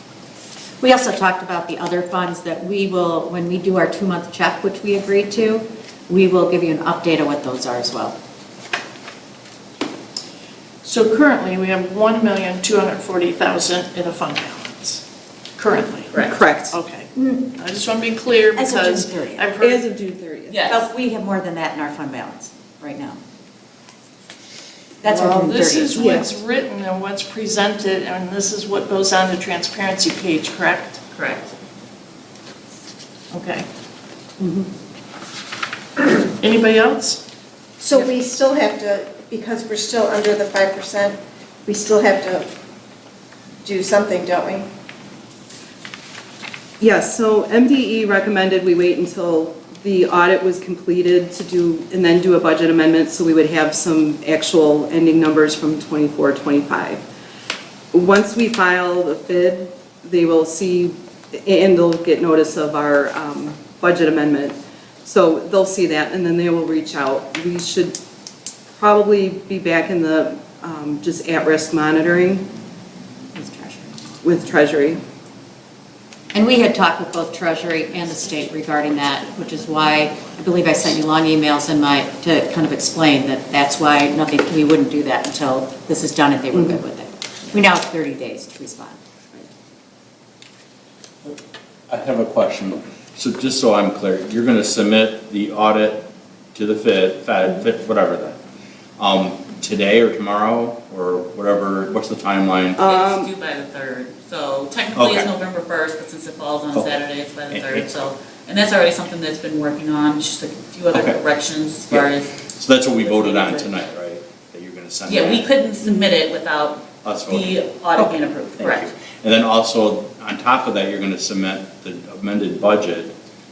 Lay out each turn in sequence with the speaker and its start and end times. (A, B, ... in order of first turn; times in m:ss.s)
0:00.8-0:08.2 A
0:10.8-0:15.0 B
0:15.6-0:16.2 B
0:16.1-0:16.4 C
0:16.2-0:16.8 D
0:16.7-0:19.8 B
0:17.2-0:17.5 A
0:18.5-0:19.5 A
0:19.6-0:20.6 D
0:20.5-0:20.9 C
0:20.7-0:23.2 A
0:25.0-0:26.3 A
0:25.0-0:31.0 B
0:26.0-0:26.3 D
0:31.1-0:31.5 C
0:33.3-0:33.6 B
0:34.4-0:34.6 D
0:36.3-0:37.2 B
0:37.8-0:42.5 E
0:43.6-0:44.7 E
0:46.8-0:57.0 D
0:57.9-1:08.0 D
1:08.7-1:12.5 D
1:13.3-1:13.9 A
1:14.2-1:15.0 D
1:16.3-1:29.0 A
1:17.8-1:21.0 B
1:26.5-1:26.8 D
1:31.9-1:38.4 F
1:39.0-1:42.8 F
1:42.8-1:43.3 D
1:42.8-1:53.8 C
1:44.9-1:45.3 F
1:46.7-1:47.9 F
1:50.9-1:51.2 F
1:51.9-1:55.5 F
1:55.1-1:58.9 C
1:57.0-1:57.6 F
1:58.6-2:03.1 F